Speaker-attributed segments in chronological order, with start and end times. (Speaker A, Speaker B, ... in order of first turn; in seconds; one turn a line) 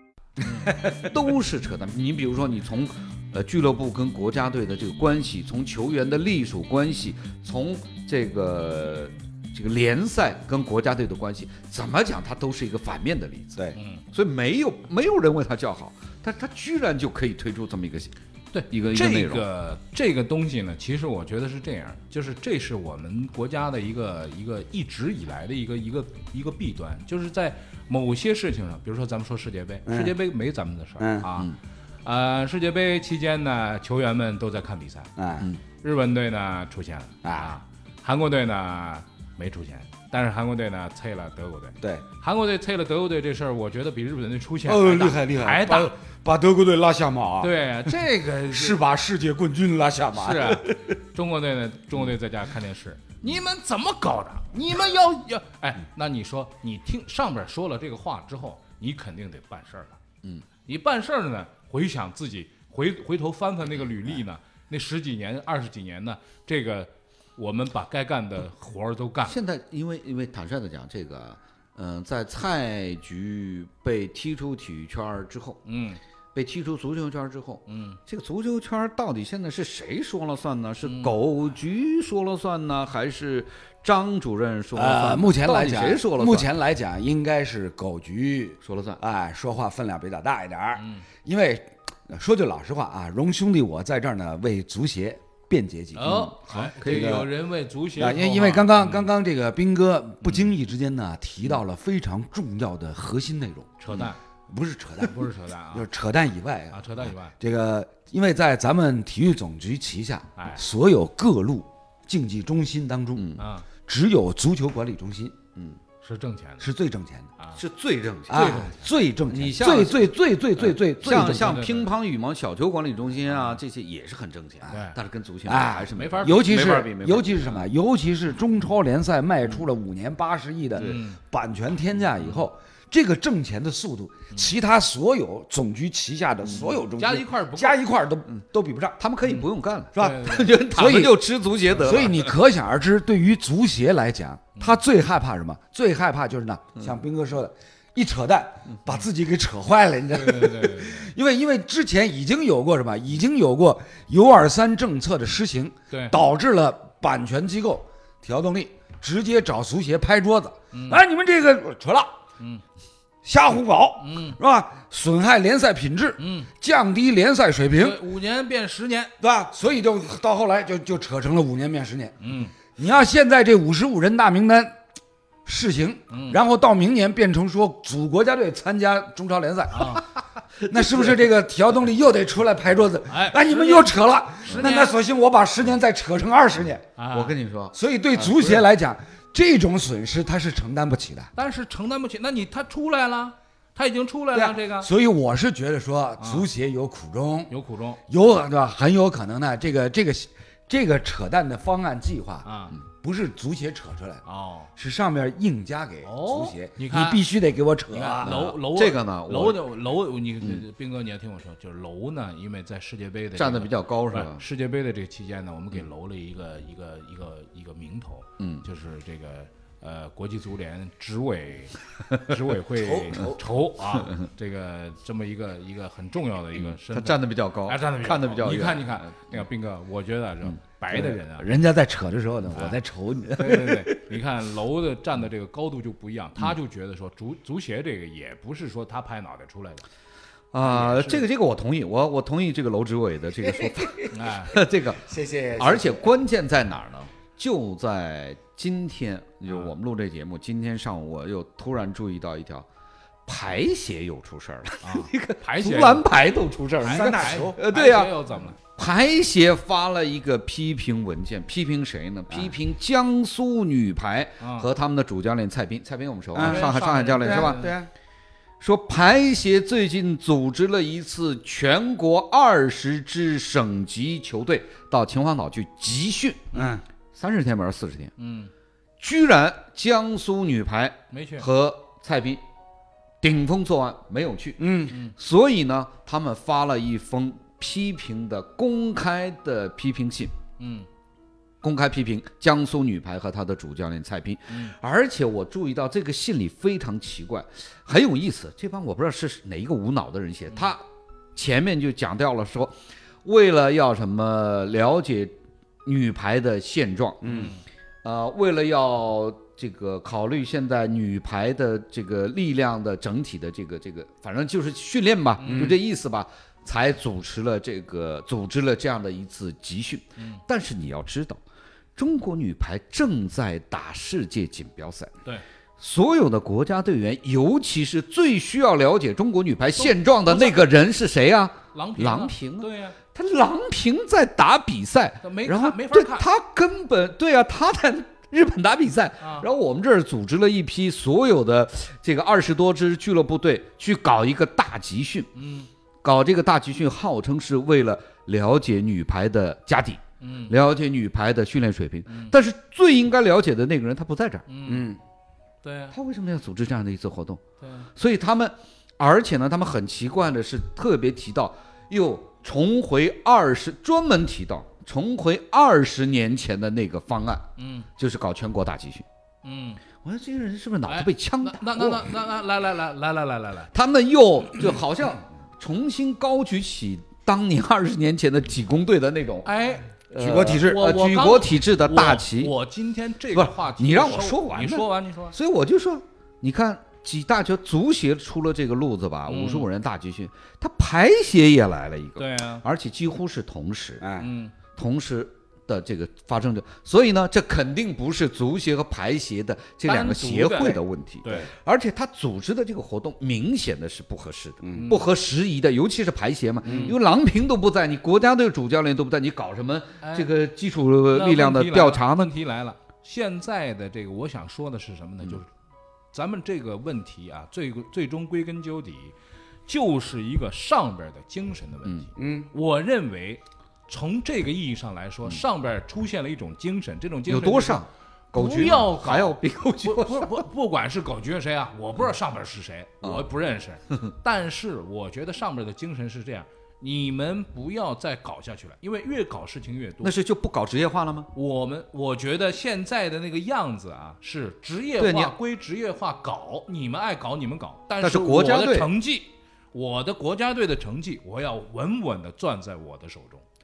Speaker A: 0.5-18.1
Speaker B: 0.6-1.0
Speaker C: 13.8-14.0
Speaker C: 18.5-35.1
Speaker A: 18.7-19.5
Speaker B: 29.9-30.2
Speaker B: 31.0-31.3
Speaker B: 35.2-35.5
Speaker C: 35.8-45.9
Speaker B: 37.2-37.5
Speaker B: 44.6-50.9
Speaker C: 47.4-48.8
Speaker C: 50.1-60.0
Speaker C: 60.6-69.4
Speaker A: 63.7-64.2
Speaker A: 69.3-75.6
Speaker C: 75.7-76.0
Speaker A: 76.3-86.5
Speaker C: 77.7-78.0
Speaker C: 80.8-81.2
Speaker B: 84.8-96.3
Speaker A: 88.6-89.0
Speaker C: 90.8-91.0
Speaker C: 96.0-99.1
Speaker A: 96.0-97.3
Speaker B: 96.8-97.3
Speaker B: 98.0-113.3
Speaker C: 103.8-104.2
Speaker C: 105.0-105.9
Speaker C: 106.7-107.3
Speaker C: 110.4-110.6
Speaker A: 113.2-113.5
Speaker C: 113.4-113.7
Speaker B: 113.9-115.4
Speaker C: 116.0-116.7
Speaker B: 116.6-117.3
Speaker A: 117.6-118.7
Speaker C: 118.3-118.8
Speaker B: 118.3-121.6
Speaker A: 119.3-127.7
Speaker C: 121.2-121.9
Speaker C: 123.3-123.6
Speaker C: 124.7-125.0
Speaker B: 125.5-139.0
Speaker C: 126.0-126.5
Speaker A: 130.8-131.0
Speaker C: 130.8-131.2
Speaker A: 136.4-136.8
Speaker C: 136.9-137.8
Speaker A: 139.0-142.3
Speaker C: 139.2-140.6
Speaker B: 139.9-141.2
Speaker B: 141.8-162.1
Speaker C: 144.6-144.8
Speaker C: 150.1-151.1
Speaker C: 155.9-156.2
Speaker C: 160.7-161.0
Speaker B: 163.2-168.0
Speaker C: 164.0-164.4
Speaker C: 166.2-166.5
Speaker C: 167.7-169.1
Speaker B: 169.2-172.2
Speaker C: 172.2-172.5
Speaker B: 172.8-174.8
Speaker B: 175.5-180.0
Speaker C: 176.1-176.4
Speaker C: 179.7-180.1
Speaker A: 180.6-181.3
Speaker B: 180.7-186.9
Speaker C: 183.1-184.9
Speaker A: 184.5-184.7
Speaker C: 187.0-187.3
Speaker A: 187.1-188.7
Speaker B: 187.7-191.3
Speaker C: 191.3-194.9
Speaker B: 194.3-197.5
Speaker C: 196.2-196.5
Speaker C: 197.5-198.0
Speaker B: 198.1-202.5
Speaker C: 202.4-202.8
Speaker B: 203.0-204.2
Speaker C: 204.2-204.7
Speaker B: 204.8-208.4
Speaker C: 206.0-207.2
Speaker C: 207.9-231.5
Speaker A: 208.2-209.6
Speaker A: 213.3-214.4
Speaker A: 218.4-218.7
Speaker B: 222.8-223.4
Speaker A: 226.5-229.4
Speaker B: 230.9-234.1
Speaker C: 233.4-239.8
Speaker A: 240.5-252.7
Speaker C: 240.6-241.3
Speaker B: 243.4-244.1
Speaker C: 244.1-244.5
Speaker B: 245.1-246.1
Speaker C: 249.5-249.7
Speaker A: 253.3-267.8
Speaker C: 254.8-256.1
Speaker C: 256.8-258.6
Speaker B: 256.8-257.6
Speaker C: 264.4-264.7
Speaker B: 266.3-267.9
Speaker C: 266.4-267.8
Speaker A: 268.6-276.5
Speaker B: 276.5-276.8
Speaker A: 277.1-278.1
Speaker C: 278.2-278.5
Speaker A: 279.0-282.4
Speaker C: 281.1-281.5
Speaker A: 283.2-290.3
Speaker B: 284.6-285.0
Speaker C: 290.6-290.9
Speaker A: 291.6-300.8
Speaker A: 301.4-307.5
Speaker B: 307.2-307.6
Speaker C: 307.3-307.6
Speaker A: 308.0-321.4
Speaker C: 315.4-315.8
Speaker B: 315.5-315.8
Speaker A: 322.0-325.1
Speaker A: 325.8-345.3
Speaker C: 329.8-330.8
Speaker C: 331.7-333.0
Speaker C: 335.2-336.3
Speaker C: 339.2-339.5
Speaker C: 345.3-345.7
Speaker A: 346.0-354.5
Speaker C: 350.2-350.6
Speaker C: 352.1-352.4
Speaker C: 354.5-354.9
Speaker B: 354.7-355.0
Speaker C: 355.6-356.0
Speaker A: 355.9-357.4
Speaker C: 357.6-357.9
Speaker A: 358.0-367.5
Speaker C: 367.6-367.9
Speaker A: 368.0-369.1
Speaker C: 369.4-369.8
Speaker A: 370.0-372.1
Speaker C: 370.9-373.7
Speaker A: 373.7-379.5
Speaker C: 379.4-385.4
Speaker A: 380.1-382.5
Speaker B: 380.2-380.8
Speaker A: 383.3-394.0
Speaker C: 389.3-389.7
Speaker C: 392.2-392.6
Speaker B: 394.0-394.3
Speaker C: 394.2-394.6
Speaker A: 394.8-412.3
Speaker C: 399.9-401.5
Speaker B: 404.6-404.9
Speaker C: 404.7-405.0
Speaker B: 406.6-407.0
Speaker C: 406.6-407.0
Speaker C: 410.0-410.3
Speaker C: 411.1-415.4
Speaker C: 416.1-419.1
Speaker C: 419.7-440.1
Speaker A: 421.8-422.1
Speaker B: 422.2-422.5
Speaker A: 427.3-430.4
Speaker A: 433.0-433.3
Speaker A: 440.0-441.3
Speaker C: 441.3-453.4
Speaker A: 445.0-445.3
Speaker A: 448.0-448.9